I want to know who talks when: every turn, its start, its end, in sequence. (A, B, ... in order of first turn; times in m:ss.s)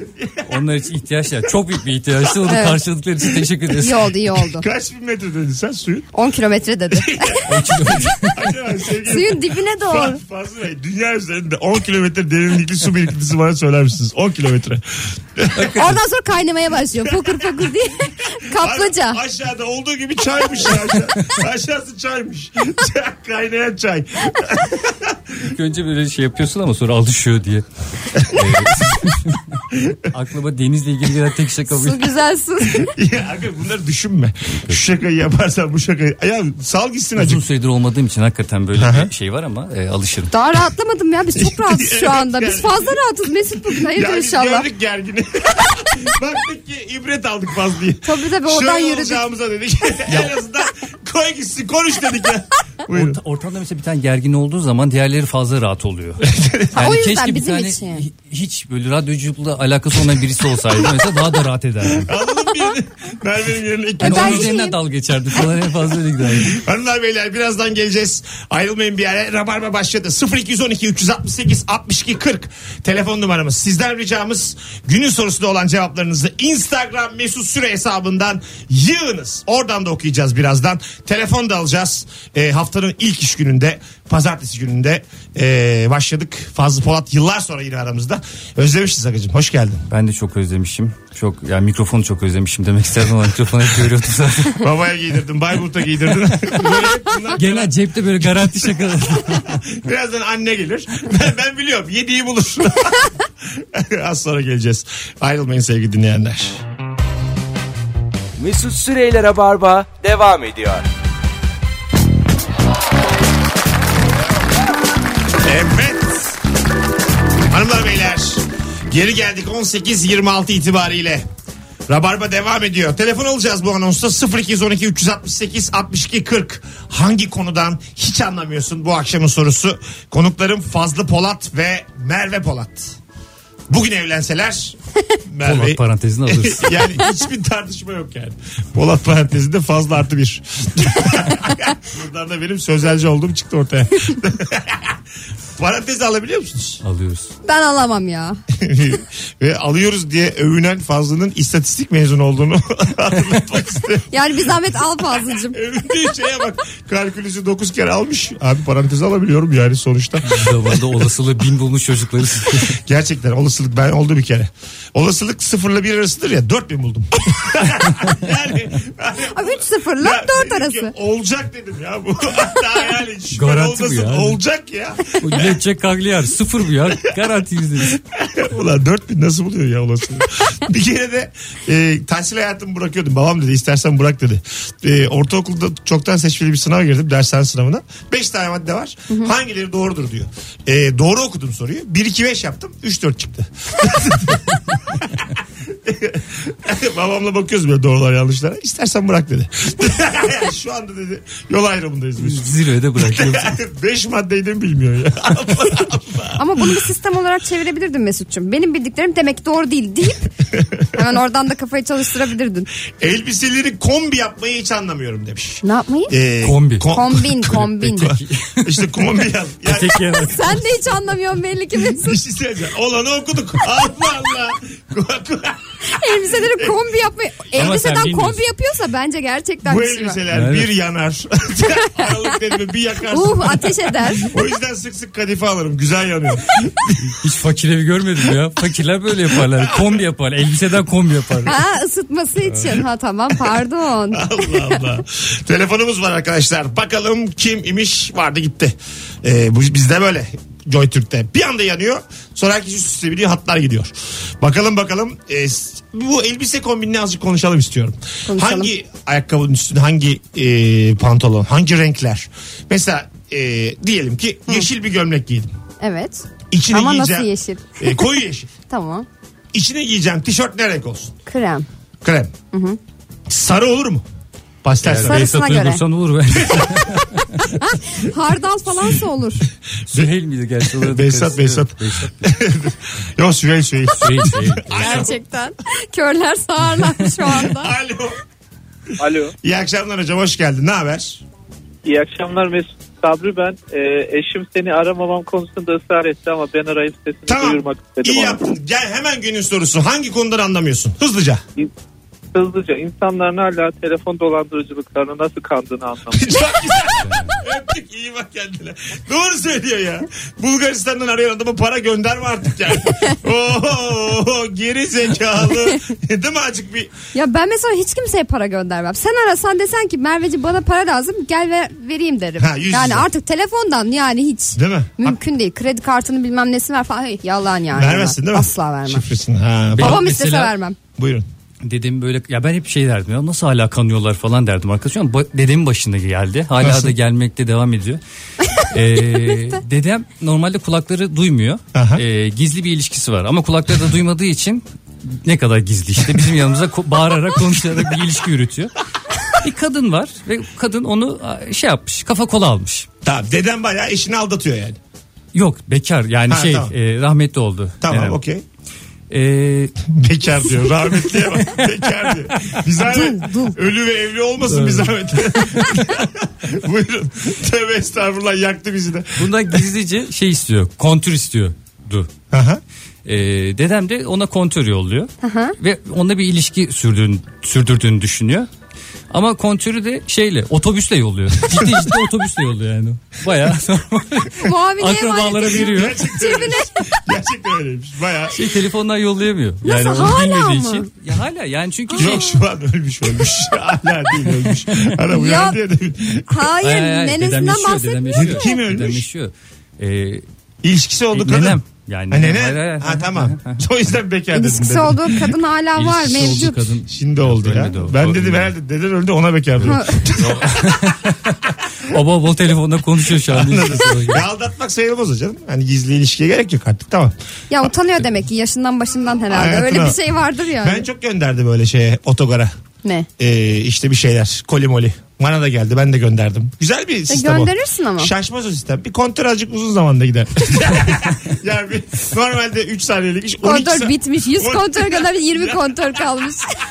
0:00.2-0:00.4 A
0:00.4-0:04.0 B
0:02.5-0:02.8 C
0:03.7-0:04.6 C
0:04.4-0:06.1 A
0:06.1-0:07.5 C
0:06.9-0:15.8 A
0:07.5-0:08.4 B
0:09.0-0:10.2 C
0:15.6-0:16.0 B
0:15.7-0:19.2 C
0:17.0-0:25.5 A
0:25.4-0:32.1 B
0:31.7-0:32.9 C
0:32.7-0:37.4 A
0:37.2-0:40.3 B
0:38.8-0:39.1 A
0:40.3-0:44.7 C
0:41.4-0:42.9 A
0:43.7-0:53.2 A
0:48.0-0:49.2 C
0:52.9-1:02.1 B
0:56.2-0:56.8 A
0:56.7-0:58.0 C
1:01.9-1:04.6 A
1:04.0-1:04.8 C
1:04.0-1:06.6 B
1:06.4-1:29.8 A
1:29.9-1:34.6 B
1:34.5-1:46.6 A
1:37.3-1:39.6 B
1:48.4-1:50.8 D
1:55.4-1:56.4 A
1:57.5-2:01.2 A
2:01.9-2:13.0 A
2:13.7-2:25.0 A
2:15.4-2:16.8 B
2:25.6-2:26.8 A
2:26.8-2:27.3 B
2:27.4-2:28.4 C
2:28.5-2:34.5 A
2:34.1-2:35.6 C
2:35.3-2:40.9 A
2:40.2-2:42.8 B
2:42.6-2:55.6 A
2:49.2-2:50.9 C
2:53.3-2:54.4 B
2:55.2-2:58.0 B
2:58.0-3:26.8 A
3:22.2-3:23.6 B
3:26.4-3:30.3 C
3:30.9-3:32.7 C
3:33.0-3:40.0 A
3:35.6-3:36.1 C
3:36.4-3:36.9 B
3:36.9-3:38.1 C
3:37.4-3:38.9 B
3:39.6-3:40.6 B
3:40.1-3:42.2 C
3:41.9-3:46.8 A
3:45.8-3:50.2 C
3:47.5-3:48.4 B
3:49.6-3:57.1 A
3:50.3-3:50.7 B
3:53.1-3:54.3 C
3:57.0-4:01.5 B
3:59.5-4:00.0 A
4:01.4-4:04.8 C
4:04.1-4:25.5 A
4:18.3-4:18.7 C
4:25.8-4:29.1 C
4:26.5-4:28.5 A
4:29.5-4:31.1 A
4:31.2-4:31.6 C
4:32.0-4:32.3 A
4:32.5-4:32.8 C
4:33.3-4:34.0 A
4:34.6-4:35.3 A
4:34.8-4:37.5 B
4:35.0-4:35.8 C
4:36.4-4:36.9 A
4:37.5-4:39.4 C
4:39.9-4:42.2 B
4:40.7-4:45.2 A
4:44.0-4:45.1 B
4:44.7-4:47.7 C
4:47.2-4:48.2 A
4:49.0-4:49.3 E
4:49.4-4:51.2 A
4:51.8-4:58.5 E
4:57.3-5:01.4 A
5:02.3-5:06.5 E
5:06.1-5:16.9 A
5:07.0-5:07.4 B
5:17.1-5:29.0 C
5:22.4-5:23.1 A
5:24.6-5:25.2 A
5:27.7-5:30.0 A
5:29.7-5:30.5 B
5:29.8-5:30.8 C
5:31.0-5:31.2 A
5:31.6-5:38.0 B
5:36.6-5:36.9 A
5:38.5-5:48.7 B
5:41.7-5:42.0 A
5:49.3-5:52.9 B
5:53.0-5:54.8 A
5:55.3-5:58.2 B
5:56.3-5:56.7 A
5:57.8-5:58.4 A
5:59.1-5:59.7 B
5:59.8-6:09.6 A
6:02.8-6:03.6 C
6:04.5-6:05.0 B
6:09.2-6:12.1 B
6:12.3-6:12.6 A
6:13.0-6:18.5 B
6:15.2-6:15.6 C
6:19.1-6:26.0 B
6:21.5-6:21.9 A
6:24.4-6:27.0 C
6:25.6-6:28.5 A
6:28.3-6:32.3 B
6:29.6-6:30.9 C
6:31.9-6:32.4 C
6:32.0-6:36.5 A
6:34.3-6:34.9 B
6:35.1-6:35.6 C
6:36.3-6:38.5 C
6:36.6-6:40.2 B
6:38.2-6:39.0 A
6:40.6-6:41.6 A
6:41.1-6:43.6 B
6:42.1-6:45.1 A
6:44.3-6:46.7 C
6:44.8-6:45.2 B
6:45.8-6:48.5 B
6:46.9-6:50.9 A
6:49.6-6:50.1 C
6:49.7-6:54.2 B
6:53.2-6:57.7 A
6:57.5-7:00.8 C
6:59.3-7:00.0 A
7:00.6-7:02.5 A
7:03.2-7:16.0 A
7:07.1-7:08.1 C
7:13.4-7:16.5 C